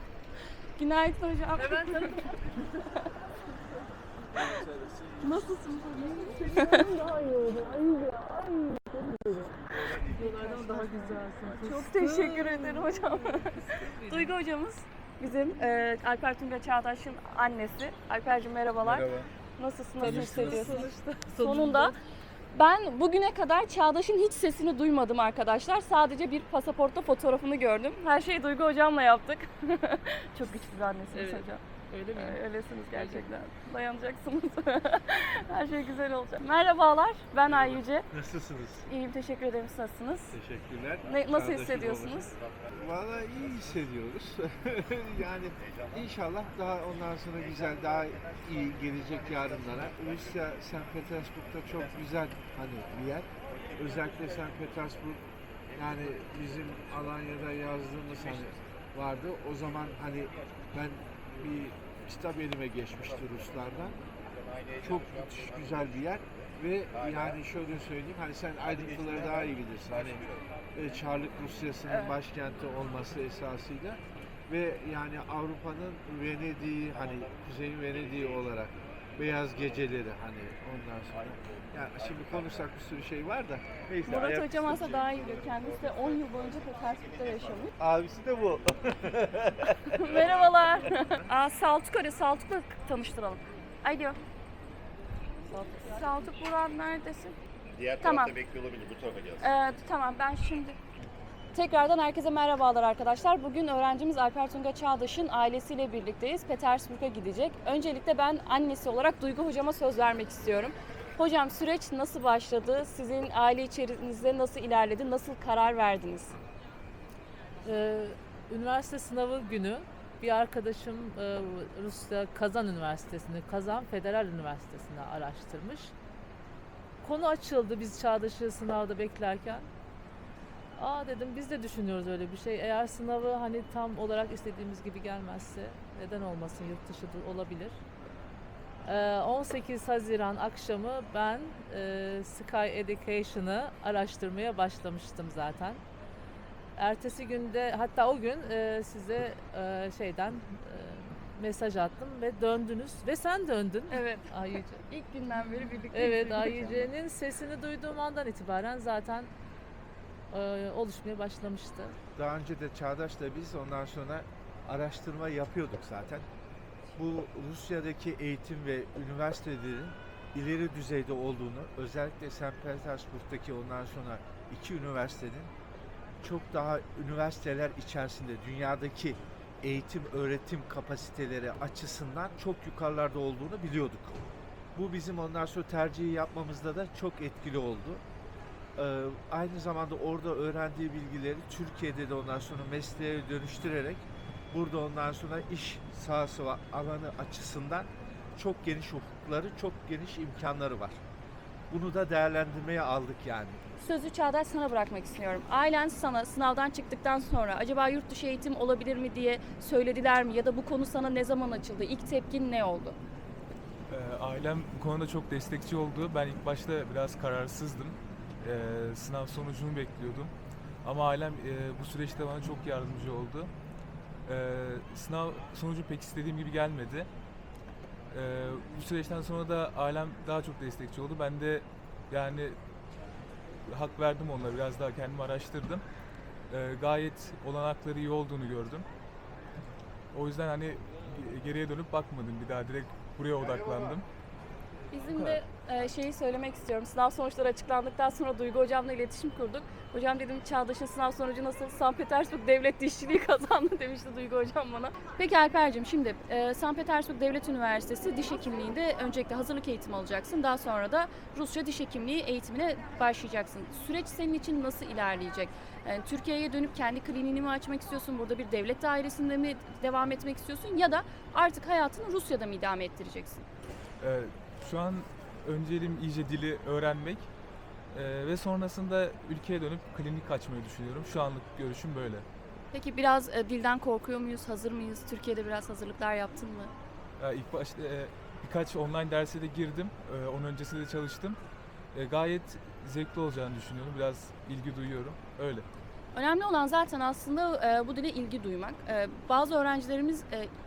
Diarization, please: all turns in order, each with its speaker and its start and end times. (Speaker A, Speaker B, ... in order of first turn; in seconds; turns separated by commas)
Speaker A: 0.8-3.0, Speaker A: 5.2-6.9, Speaker B: 6.3-14.4, Speaker A: 10.2-21.9, Speaker C: 18.8-19.2, Speaker B: 20.0-22.0, Speaker C: 20.1-20.5, Speaker A: 22.5-31.6, Speaker B: 31.1-32.4, Speaker A: 32.1-38.1, Speaker B: 32.9-33.3, Speaker D: 37.5-38.9, Speaker A: 38.9-40.3, Speaker D: 40.3-55.2, Speaker A: 41.1-42.3, Speaker E: 55.7-56.2, Speaker D: 55.7-64.0, Speaker E: 58.1-58.7, Speaker E: 64.3-67.4, Speaker D: 64.8-85.1, Speaker E: 68.7-70.4, Speaker A: 71.9-72.1, Speaker E: 82.1-82.4, Speaker A: 84.0-87.8, Speaker D: 87.8-89.8, Speaker A: 89.9-94.2, Speaker A: 95.5-97.3, Speaker E: 97.7-99.4, Speaker A: 98.0-98.3, Speaker A: 99.4-100.8, Speaker A: 101.5-116.4, Speaker B: 117.6-125.9, Speaker B: 127.0-129.7, Speaker B: 130.8-137.8, Speaker B: 138.8-145.8, Speaker B: 146.8-154.8, Speaker A: 153.9-156.9, Speaker B: 155.9-159.3, Speaker B: 160.3-162.0, Speaker D: 162.2-166.3, Speaker D: 167.0-175.5, Speaker D: 176.2-184.2, Speaker D: 184.8-188.0, Speaker D: 188.8-201.0, Speaker D: 201.7-203.6, Speaker A: 203.8-213.0, Speaker C: 213.9-223.5, Speaker C: 224.2-227.1, Speaker C: 228.1-232.6, Speaker C: 233.7-235.8, Speaker C: 236.5-238.9, Speaker C: 240.1-244.1, Speaker E: 243.7-244.0, Speaker A: 244.9-273.4, Speaker C: 245.1-245.4, Speaker C: 274.0-277.3, Speaker C: 277.9-282.2, Speaker A: 282.7-286.7, Speaker C: 287.2-291.4, Speaker C: 291.9-295.7, Speaker A: 296.1-300.5